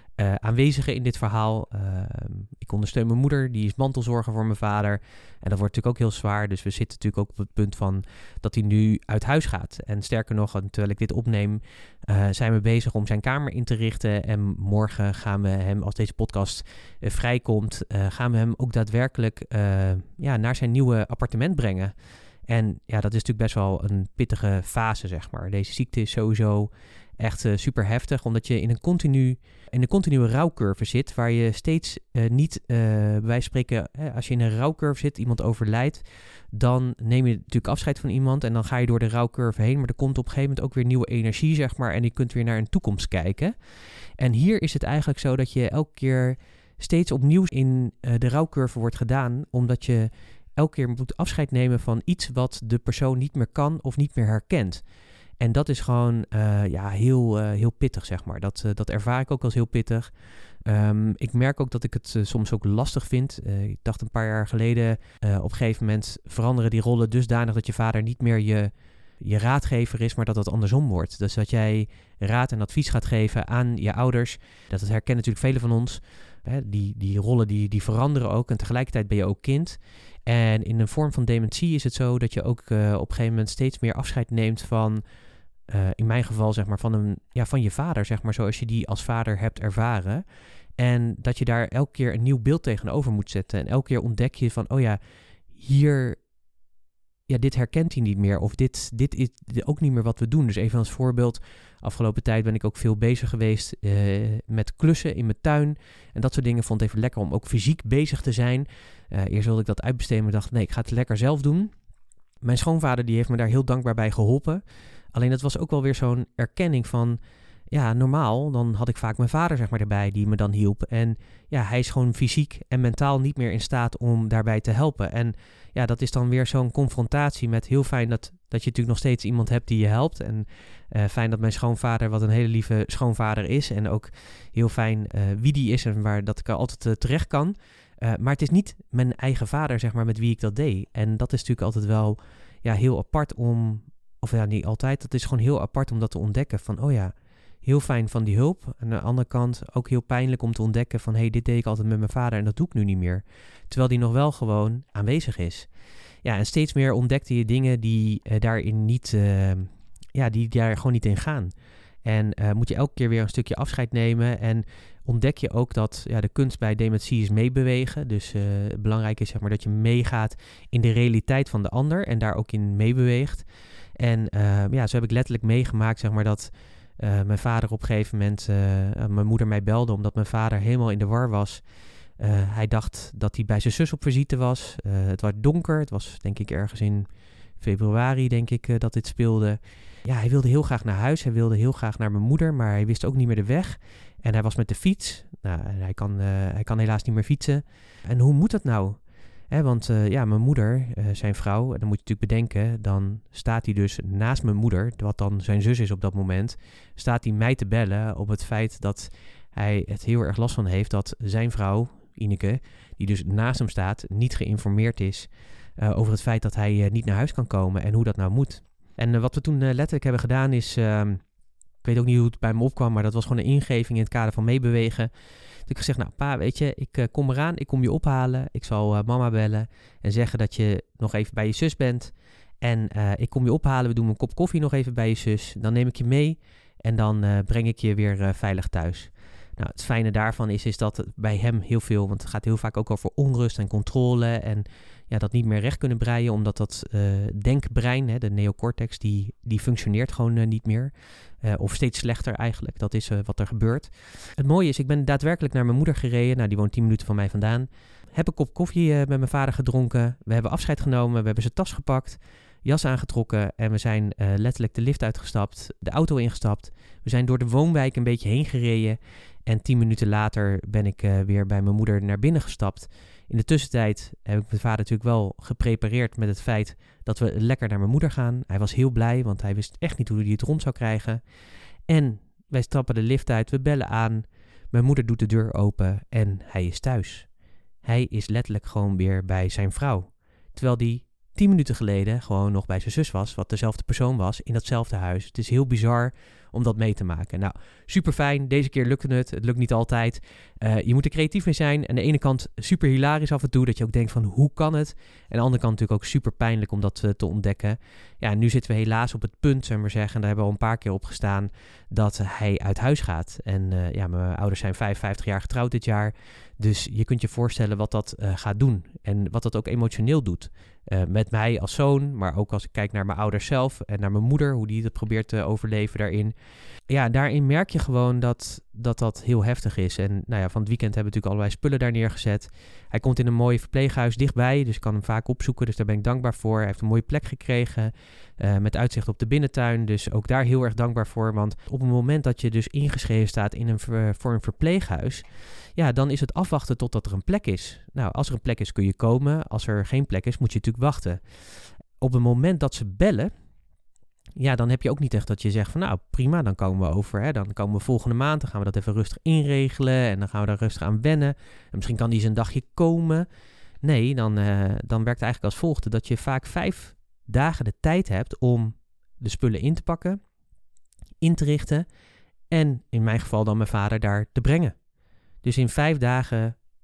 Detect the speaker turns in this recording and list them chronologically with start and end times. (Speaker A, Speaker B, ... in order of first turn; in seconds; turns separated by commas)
Speaker A: 0.2-21.9, Speaker A: 22.5-43.5, Speaker A: 44.2-54.8, Speaker A: 55.4-60.1, Speaker A: 60.6-85.0, Speaker A: 85.7-90.2, Speaker A: 90.8-95.0, Speaker A: 95.5-96.2, Speaker A: 97.3-111.7, Speaker A: 112.4-117.2, Speaker A: 117.7-155.7, Speaker A: 156.2-161.5, Speaker A: 162.0-173.4, Speaker A: 174.0-181.6, Speaker A: 182.2-187.1, Speaker A: 187.6-221.2, Speaker A: 221.8-225.1, Speaker A: 225.7-281.2, Speaker A: 281.9-287.3, Speaker A: 287.8-326.3, Speaker A: 326.9-345.2, Speaker A: 345.8-351.2, Speaker A: 352.0-353.3, Speaker A: 354.4-363.3, Speaker A: 363.8-370.2, Speaker A: 371.2-371.9, Speaker A: 372.5-374.7, Speaker A: 375.4-376.6